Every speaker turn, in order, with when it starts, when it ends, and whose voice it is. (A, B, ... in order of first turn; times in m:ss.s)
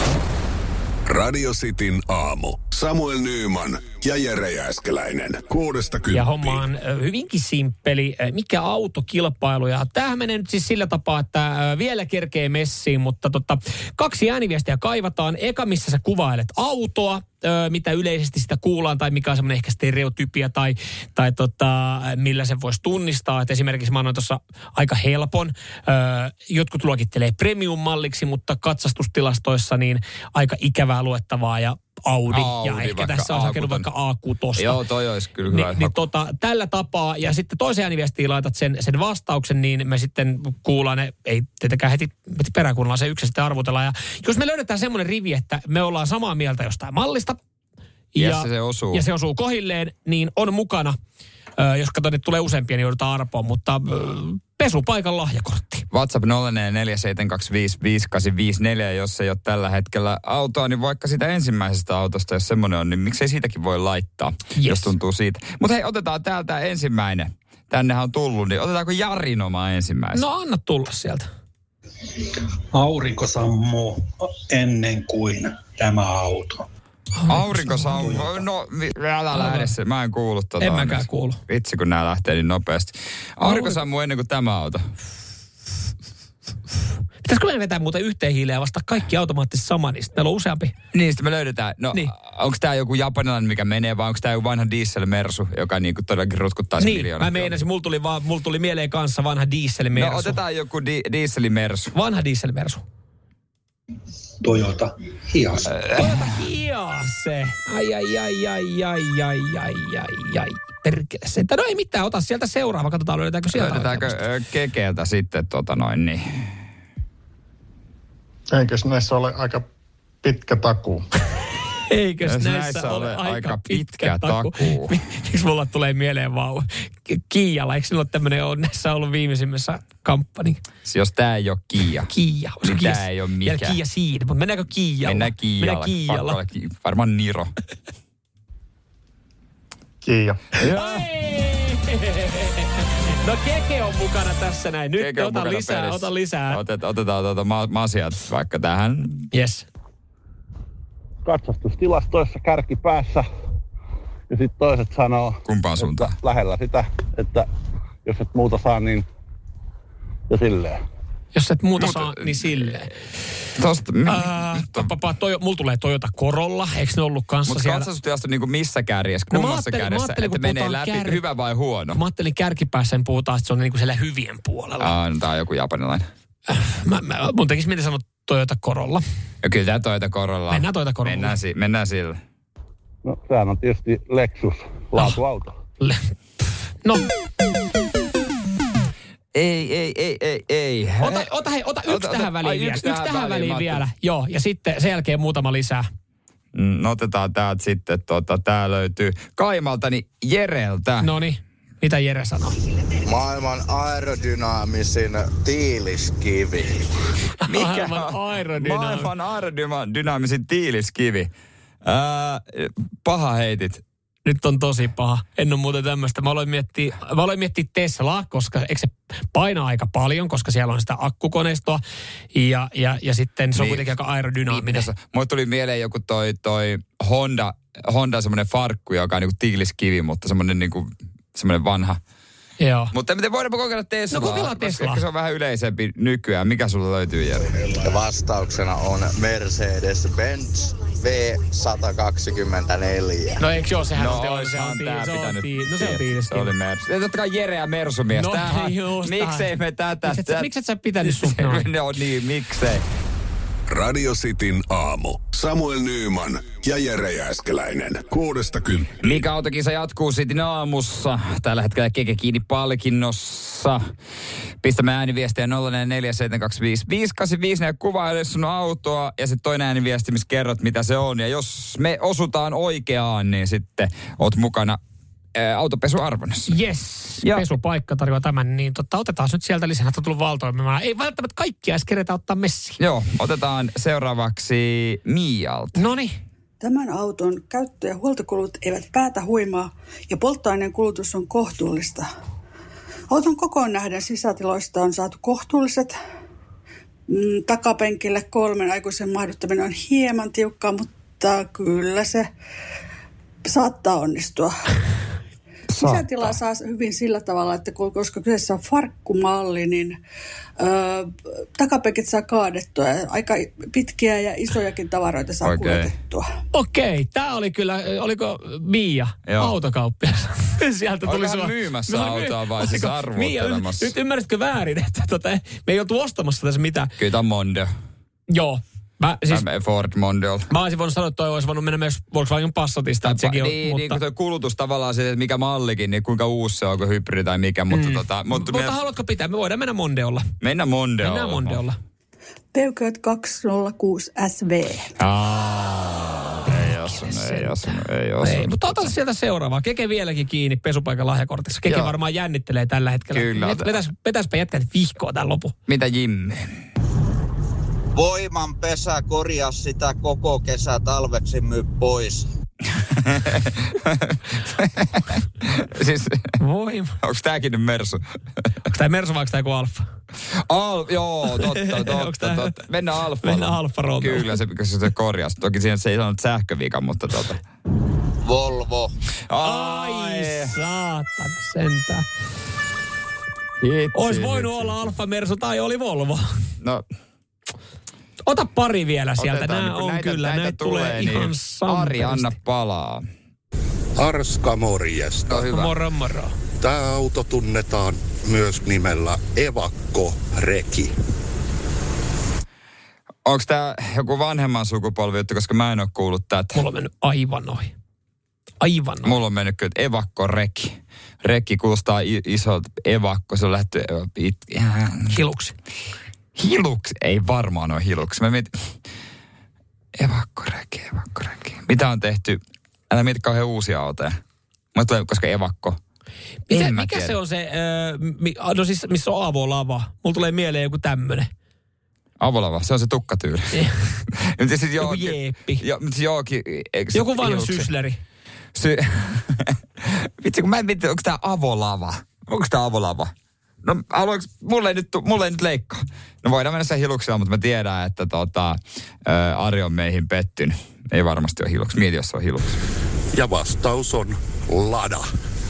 0:01.1-0:06.6 A
0:06.1-0:34.8 B
0:32.3-0:33.9 C
0:34.6-0:36.0 C
0:35.5-0:47.4 B
0:48.1-0:51.0 B
0:48.2-0:49.0 C
0:51.6-0:55.8 B
0:55.9-1:10.2 C
1:04.6-1:04.9 B
1:10.1-1:11.3 B
1:12.7-1:16.6 D
1:17.2-1:18.2 B
1:17.3-1:24.9 C
1:19.3-1:19.7 B
1:20.6-1:21.4 B
1:23.4-1:23.8 B
1:27.2-1:30.7 B
1:30.9-1:37.6 C
1:36.8-1:40.4 B
1:39.9-1:41.9 C
1:41.9-1:42.8 B
1:44.4-1:45.6 D
1:45.7-1:46.4 C
1:45.9-1:54.2 B
1:53.5-1:56.5 C
1:58.5-1:59.7 E
2:00.2-2:01.0 E
2:01.9-2:10.6 B
2:02.2-2:05.0 C
2:10.8-2:12.1 C
2:12.1-2:16.4 B
2:12.6-2:13.8 C
2:15.0-2:17.5 C
2:20.0-2:20.4 E
2:20.6-2:21.1 C
2:20.7-2:26.6 B
2:25.0-2:29.3 C
2:29.3-2:29.7 B
2:31.2-2:33.2 F
2:34.3-2:37.5 F
2:35.4-2:36.2 C
2:38.0-2:39.0 F
2:40.3-2:40.8 F
2:41.3-2:42.9 B
2:41.8-2:42.8 C
2:43.6-2:44.9 C
2:44.1-2:47.9 B
2:47.4-2:52.0 C
2:49.3-2:51.2 B
2:51.9-2:54.9 B
2:54.8-2:56.0 C
2:56.5-2:59.0 B
2:59.4-3:02.2 C
3:00.5-3:01.4 B
3:03.0-3:05.6 F
3:05.8-3:06.1 B
3:09.3-3:11.3 C
3:11.0-3:15.9 B
3:11.8-3:13.8 C
3:16.5-3:21.1 C
3:21.0-3:22.6 B
3:23.0-3:26.8 G
3:27.4-3:29.1 B
3:27.4-3:31.3 C
3:31.8-3:33.8 C
3:34.2-3:41.8 B
3:42.3-3:44.9 B
3:43.5-3:43.9 C
3:44.4-3:52.0 C
3:52.6-3:52.9 B
3:52.9-3:57.4 C
3:54.1-3:55.0 B
3:57.6-4:03.4 G
4:03.4-4:06.5 B
4:04.0-4:10.5 C
4:08.1-4:09.5 B
4:10.0-4:11.7 B
4:11.0-4:12.8 C
4:13.7-4:19.1 A
4:19.0-4:23.8 C
4:24.6-4:34.8 C
4:35.3-4:36.6 C
4:36.5-4:42.8 B
4:37.2-4:37.4 C
4:42.8-4:45.8 C
4:45.8-4:46.2 B
4:46.6-4:52.1 H
4:53.1-4:55.9 H
4:57.1-5:02.2 H
5:03.4-5:04.5 H
5:05.7-5:06.3 C
5:05.8-5:10.0 H
5:10.6-5:16.2 H
5:15.4-5:15.9 C
5:16.5-5:26.9 B
5:19.2-5:19.6 C
5:21.0-5:23.9 C
5:27.0-5:27.7 C
5:28.3-5:29.4 B
5:29.3-5:30.5 C
5:30.5-5:34.0 B
5:33.0-5:38.8 C
5:37.7-5:40.3 B
5:40.4-5:41.6 C
5:41.0-5:41.8 B
5:42.5-5:44.9 H
5:45.0-5:48.9 C
5:46.4-5:55.5 B
5:51.6-5:52.0 C
5:53.1-5:53.8 C
5:55.7-5:56.6 C
5:58.0-6:02.2 G
6:03.2-6:06.4 C
6:06.4-6:07.0 B
6:07.0-6:08.0 C
6:08.7-6:09.8 B
6:10.5-6:17.4 C
6:11.3-6:12.4 B
6:13.2-6:14.3 B
6:18.2-6:18.9 G
6:19.3-6:20.5 C
6:19.4-6:22.0 B
6:23.6-6:24.8 C
6:23.9-6:26.2 B
6:28.3-6:32.3 B
6:29.2-6:33.1 C
6:34.0-6:35.5 I
6:35.3-6:35.8 C
6:35.3-6:36.3 B
6:36.6-6:41.0 I
6:43.2-6:46.6 C
6:46.5-6:47.7 B
6:48.6-6:49.1 B
6:49.0-6:55.2 C
6:55.1-6:55.6 B
6:56.4-6:58.5 C
7:00.0-7:02.4 C
7:02.9-7:04.2 C
7:04.8-7:05.8 C
7:06.5-7:11.3 B
7:06.5-7:07.2 C
7:12.2-7:17.7 C
7:14.8-7:15.6 B
7:16.9-7:18.0 B
7:18.6-7:23.1 C
7:23.6-7:32.6 C
7:33.1-7:35.1 I